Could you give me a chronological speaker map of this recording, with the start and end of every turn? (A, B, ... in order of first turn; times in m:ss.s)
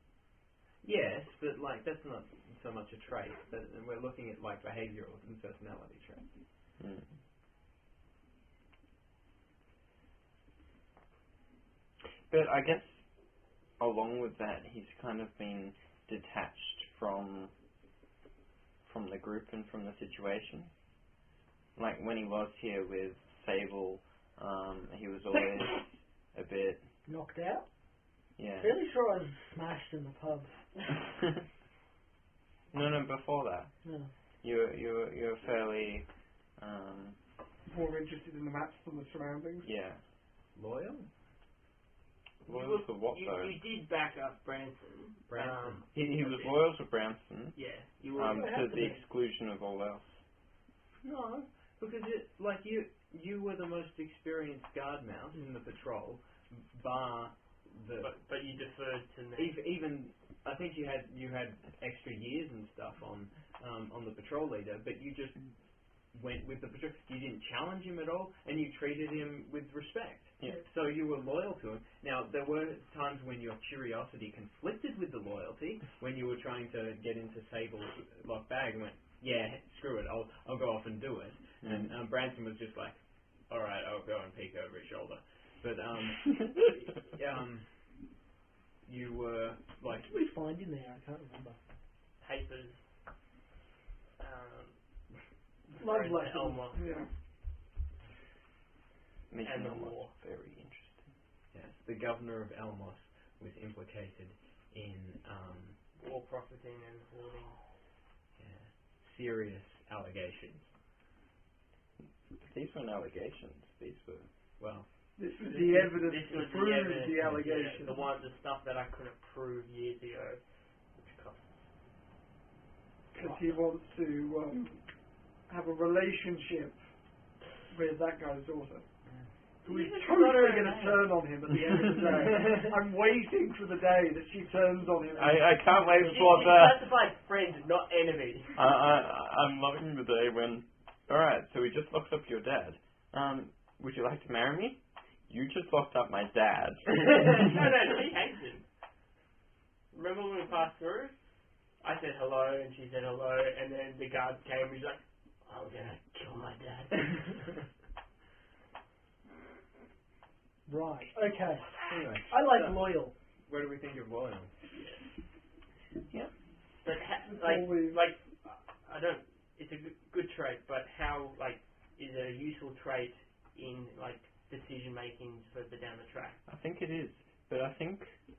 0:00.8-0:06.3 A
0:06.8-0:07.1 B
0:12.3-0:13.0 B
0:13.8-0:17.5 B
0:18.8-0:20.7 B
0:21.8-0:26.8 B
0:27.0-0:27.7 C
0:28.4-0:28.8 B
0:28.6-0:30.6 C
0:32.7-0:33.7 B
0:33.8-0:34.1 C
0:34.4-0:36.1 B
0:36.6-0:37.2 B
0:37.6-0:39.7 D
0:39.6-0:40.0 B
0:40.5-0:41.1 A
0:42.4-0:46.6 E
0:42.4-0:43.6 B
0:45.3-0:45.8 A
0:45.9-0:47.6 B
0:47.5-0:48.7 E
0:48.1-0:50.2 B
0:48.2-0:49.0 C
0:51.0-0:58.1 A
0:58.0-0:59.6 E
0:59.4-1:05.4 A
1:06.1-1:27.7 A
1:21.6-1:21.9 B
1:28.8-1:30.1 A
1:29.9-1:31.6 C
1:32.2-1:32.8 E
1:34.2-1:34.8 E
1:35.7-1:36.8 E
1:35.8-1:37.1 D
1:39.3-1:41.1 B
1:39.4-1:40.1 E
1:41.5-1:45.8 A
1:46.0-1:47.6 E
1:48.4-1:50.7 A
1:52.4-1:54.3 B
1:54.6-1:54.9 A
1:55.2-1:58.1 D
1:55.4-2:00.4 E
2:00.9-2:01.7 E
2:03.1-2:04.8 D
2:05.4-2:06.8 D
2:07.7-2:08.8 D
2:09.0-2:09.3 A
2:09.6-2:11.2 E
2:09.6-2:15.6 D
2:12.0-2:12.6 E
2:15.2-2:16.9 B
2:15.7-2:18.8 E
2:18.5-2:27.2 B
2:27.0-2:28.6 E
2:29.9-2:31.2 E
2:31.8-2:37.5 E
2:40.7-2:41.7 C
2:41.9-2:44.5 A
2:42.3-2:43.1 C
2:44.7-2:45.0 E
2:46.8-2:56.4 E
2:47.3-2:48.0 D
2:56.5-2:58.1 B